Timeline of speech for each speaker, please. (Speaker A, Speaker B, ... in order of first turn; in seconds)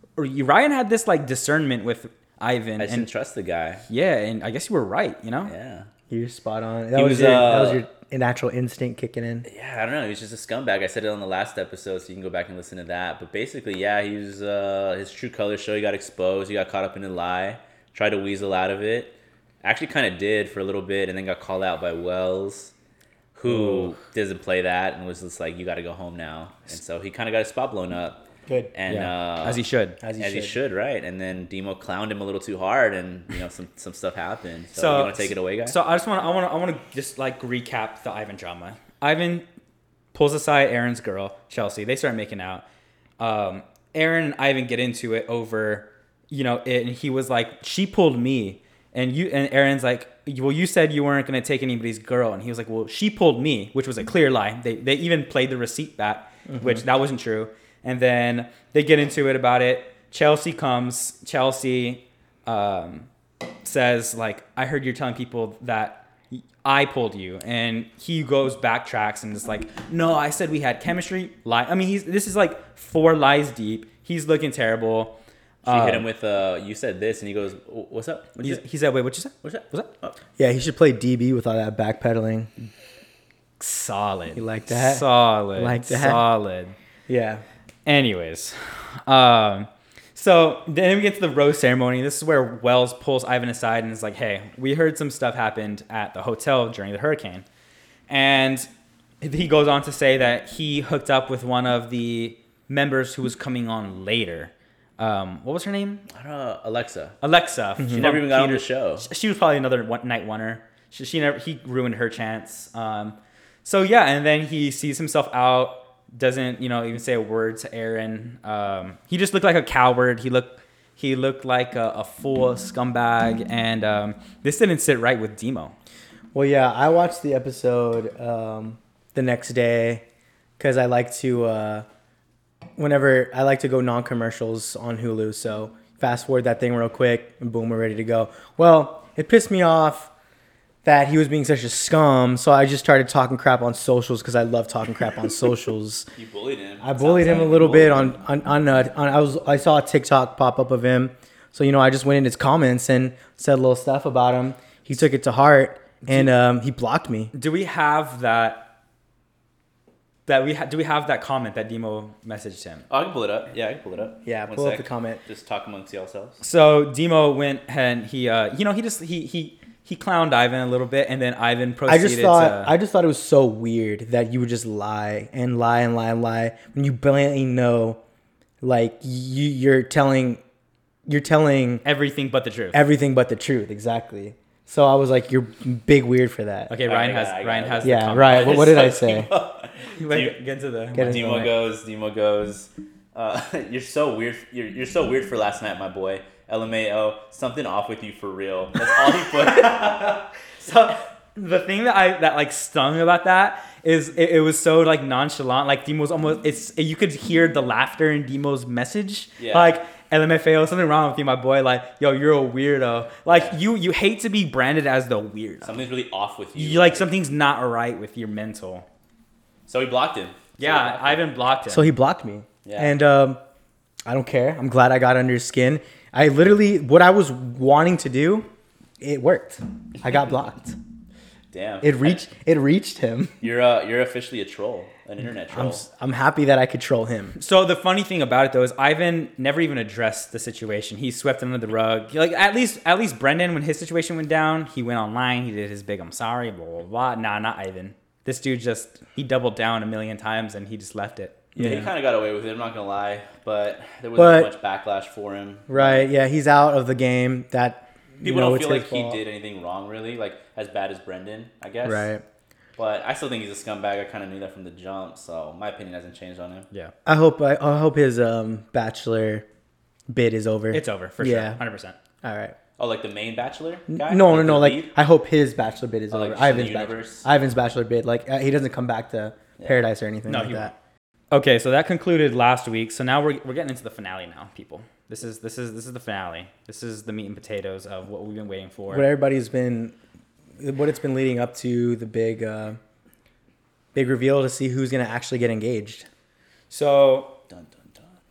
Speaker A: 0.2-3.1, 3.9-5.5, 23.5-23.9, 28.9-30.0, 34.7-39.5, 40.1-42.6, 43.2-63.1, 63.6-76.0, 78.4-79.9, 83.6-86.7, 87.8-97.4, 98.1-98.7, 99.2-106.0, 107.2-125.7, 157.3-158.7, 160.3-162.8, 166.4-172.7, 181.8-182.8, 186.7-188.9, 189.9-191.5, 199.2-215.8, 216.6-218.8, 220.6-221.9, 237.3-251.4, 270.7-271.9, 280.3-280.7, 281.3-289.1, 296.7-297.4
Speaker B: 2.8-3.8, 5.5-5.9, 6.9-7.8, 9.4-22.7, 23.3-28.2, 28.7-29.6, 30.2-35.8, 75.7-78.6, 79.4-80.2, 106.1-107.2, 107.9-109.0, 146.2-148.1, 162.9-166.4, 186.8-190.4, 191.0-200.1, 209.4-209.8, 213.3-213.6, 215.6-217.1, 219.7-221.2, 222.6-222.9, 231.5-232.2, 233.4-235.8, 251.6-256.1, 258.2-262.1, 262.8-266.7, 272.8-274.9, 276.1-277.2, 297.5-298.0
Speaker C: 6.1-9.4, 28.5-28.7, 30.0-30.6, 56.5-56.8, 80.4-82.5, 84.3-86.2, 87.1-87.4, 126.3-130.0, 130.6-131.8, 132.8-140.1, 140.8-146.1, 146.8-157.3, 164.2-165.2, 171.9-178.0, 178.6-180.4, 181.1-181.8, 182.7-186.7, 187.8-189.3, 190.9-191.5, 221.7-223.4, 224.1-228.5, 229.0-230.8, 231.8-233.3, 235.5-237.3, 251.6-251.9, 254.2-254.5, 255.7-259.2, 261.8-262.2, 267.1-269.4, 270.1-271.6, 272.2-272.6, 273.9-280.7, 288.9-289.9, 290.6-292.8, 293.9-296.1